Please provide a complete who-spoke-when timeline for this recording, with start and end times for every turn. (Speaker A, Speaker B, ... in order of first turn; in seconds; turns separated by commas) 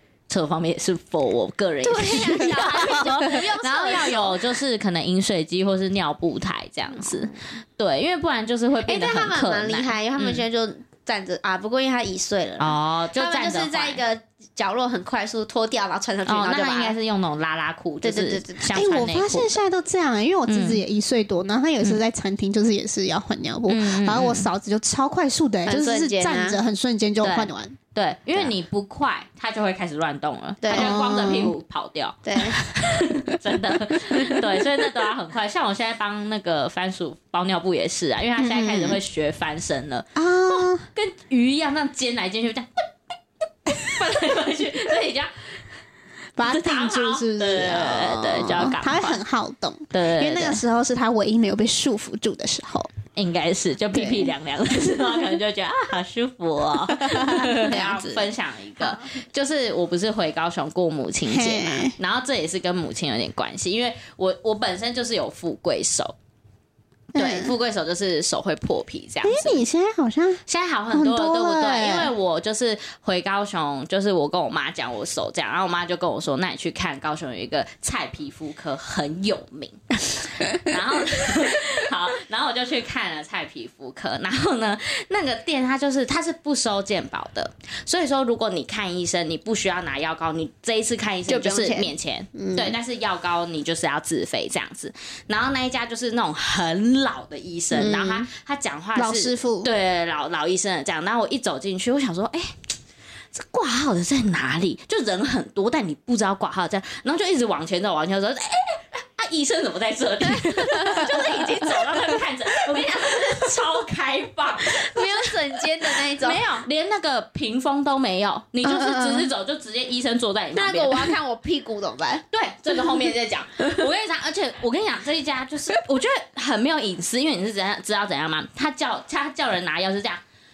Speaker A: 0.3-10.4, Speaker B: 1.8-4.5, Speaker C: 2.9-3.2, Speaker B: 7.0-7.3, Speaker B: 8.8-16.9, Speaker A: 12.6-14.0, Speaker A: 16.2-19.6, Speaker B: 18.0-18.7, Speaker C: 18.7-27.8, Speaker A: 20.5-20.8, Speaker A: 23.7-24.5, Speaker B: 25.6-26.6, Speaker A: 27.2-42.7, Speaker B: 30.6-31.2, Speaker C: 30.7-31.5, Speaker B: 32.2-32.6, Speaker C: 38.4-39.0, Speaker C: 40.1-40.9, Speaker A: 43.7-45.6, Speaker C: 46.4-52.9, Speaker A: 46.4-49.2, Speaker A: 49.9-50.6, Speaker A: 53.1-66.1, Speaker C: 53.9-54.3, Speaker C: 57.0-58.2, Speaker C: 61.3-61.9, Speaker A: 67.1-69.6, Speaker C: 67.1-67.5, Speaker C: 69.2-72.1, Speaker A: 70.5-102.6, Speaker B: 91.3-92.7, Speaker B: 97.7-98.3, Speaker C: 98.9-99.7, Speaker A: 103.3-115.3, Speaker B: 110.3-111.8, Speaker B: 114.7-116.4, Speaker A: 115.9-121.1, Speaker C: 118.6-119.3, Speaker B: 120.5-122.3, Speaker A: 122.3-130.2